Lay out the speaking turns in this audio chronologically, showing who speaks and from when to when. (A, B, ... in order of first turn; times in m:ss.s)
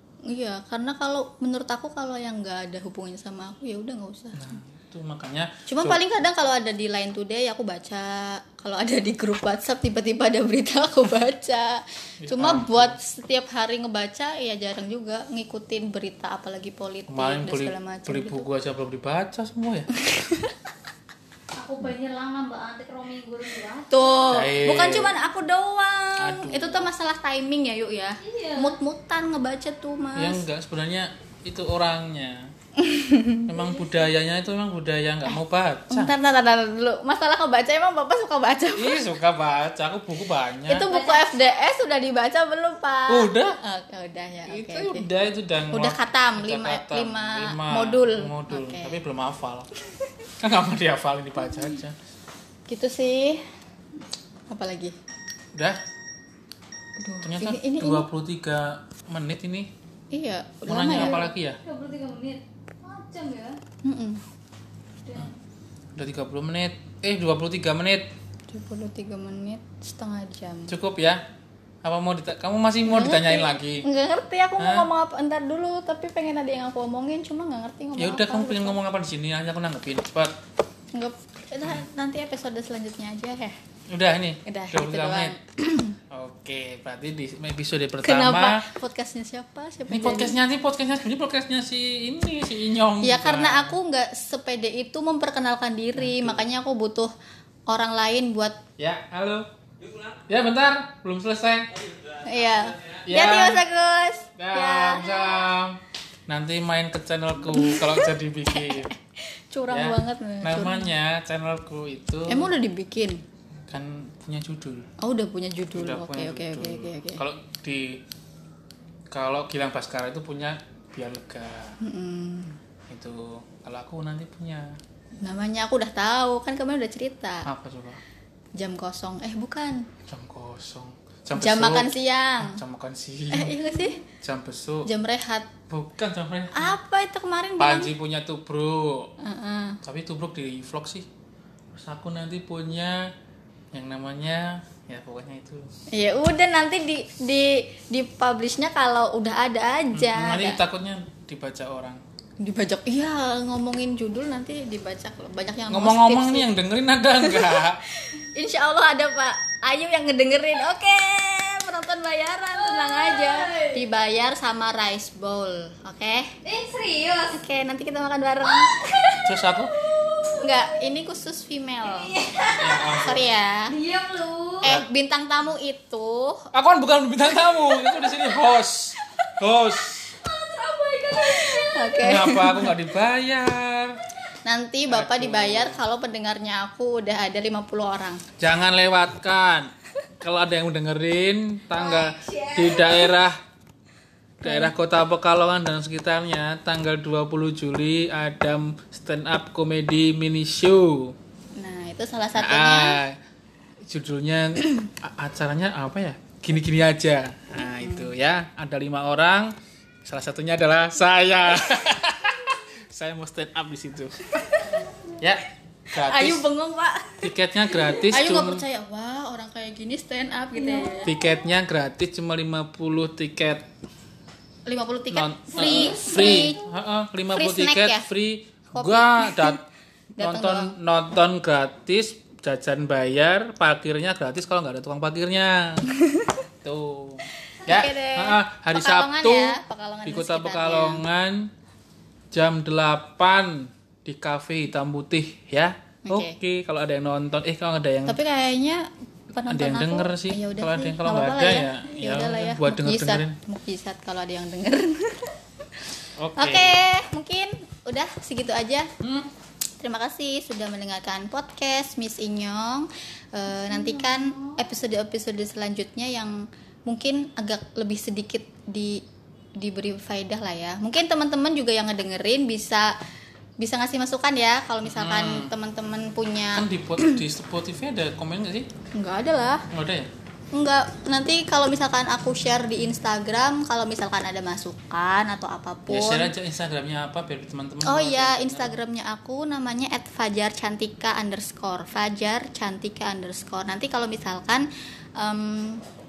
0:00.2-0:04.6 A
0:04.4-0:06.0 B
0:05.7-0:18.5 A
0:12.2-0:13.0 B
0:17.1-0:19.9 B
0:20.0-0:20.5 A
0:21.6-0:24.3 C
0:23.9-0:30.4 A
0:24.3-0:25.1 B
0:26.2-0:26.9 B
0:28.2-0:28.8 C
0:30.2-0:32.5 B
0:32.8-0:33.5 A
0:33.5-0:36.1 B
0:35.9-0:39.1 A
0:38.7-0:40.9 B
0:40.7-0:45.1 A
0:40.8-0:41.6 C
0:43.1-0:43.6 B
0:44.5-0:49.7 B
0:45.7-0:49.0 A
0:50.4-0:52.0 B
0:52.7-0:53.4 A
0:54.5-0:55.0 A
0:55.5-0:55.8 B
0:57.0-0:58.1 A
0:57.2-0:59.7 B
1:00.1-1:01.3 A
1:00.7-1:01.6 B
1:01.0-1:03.6 C
1:03.8-1:04.2 A
1:05.1-1:05.4 C
1:06.0-1:08.1 B
1:08.5-1:10.8 A
1:10.7-1:11.2 B
1:11.8-1:13.9 B
1:12.9-1:18.8 A
1:14.6-1:14.9 B
1:18.0-1:20.4 B
1:20.9-1:23.6 A
1:23.9-1:25.4 B
1:24.5-1:26.0 A
1:26.1-1:28.7 B
1:28.0-1:30.4 A
1:29.9-1:33.8 B
1:33.0-1:37.1 A
1:36.0-1:36.4 B
1:37.7-1:38.6 A
1:38.8-1:41.8 B
1:42.2-1:45.5 A
1:43.0-1:43.6 B
1:44.4-1:48.9 B
1:47.5-1:50.9 A
1:49.7-1:52.6 B
1:52.3-1:53.2 A
1:53.7-1:54.9 B
1:55.0-1:57.2 A
1:55.8-1:58.0 B
1:59.1-2:01.8 B
2:01.8-2:02.6 A
2:02.9-2:04.8 B
2:05.2-2:07.5 A
2:07.4-2:08.0 B
2:08.6-2:09.9 A
2:10.1-2:13.6 B
2:11.4-2:12.6 A
2:13.3-2:14.0 A
2:14.2-2:14.9 B
2:14.8-2:15.5 A
2:15.7-2:16.7 B
2:16.5-2:17.9 A
2:17.6-2:19.1 B
2:19.2-2:19.8 A
2:19.8-2:21.1 B
2:21.7-2:23.1 B
2:23.7-2:25.7 B
2:25.9-2:30.6 A
2:29.9-2:32.0 B
2:32.4-2:36.5 A
2:35.7-2:37.8 B
2:37.2-2:46.4 A
2:42.6-2:43.8 C
2:46.4-2:47.4 C
2:47.3-2:48.9 A
2:48.4-2:49.2 C
2:49.2-2:49.7 B
2:50.0-2:50.7 C
2:50.4-2:52.1 A
2:51.9-2:52.9 C
2:52.6-2:53.2 B
2:52.9-2:53.8 A
2:53.7-2:54.8 C
2:54.6-2:56.5 A
2:56.5-3:00.1 B
2:57.4-2:58.3 A
3:00.1-3:02.0 C
3:01.2-3:02.8 A
3:02.0-3:04.0 B
3:04.4-3:08.2 A
3:04.9-3:05.8 B
3:08.4-3:13.4 B
3:11.7-3:13.2 C
3:14.4-3:21.2 B
3:14.4-3:14.7 A
3:21.6-3:23.0 A
3:22.4-3:23.2 B
3:23.8-3:29.5 B
3:27.6-3:28.1 A
3:30.0-3:34.4 B
3:34.5-3:34.9 A
3:35.2-3:36.5 B
3:35.9-3:41.1 A
3:37.2-3:38.6 B
3:40.6-3:41.3 C
3:41.1-3:43.7 B
3:44.7-3:46.6 A
3:45.1-3:49.6 B
3:45.5-3:46.6 C
3:47.3-3:48.1 A
3:48.7-3:49.6 A
3:50.2-3:50.8 A
3:50.2-3:55.9 B
3:56.0-3:56.4 A
3:56.6-4:01.5 B
3:57.6-4:01.0 A
4:02.3-4:08.2 B
4:06.1-4:06.4 A
4:08.1-4:15.4 A
4:09.5-4:13.4 B
4:16.2-4:16.8 B
4:16.4-4:18.9 A
4:19.0-4:19.3 B
4:19.8-4:29.0 A
4:23.7-4:24.6 C
4:29.6-4:32.9 A
4:33.6-4:37.2 A
4:34.8-4:35.5 B
4:36.5-4:38.7 B
4:38.9-4:39.7 A
4:39.7-4:40.1 B
4:40.5-4:46.3 A
4:45.9-4:48.8 B
4:47.8-4:55.8 A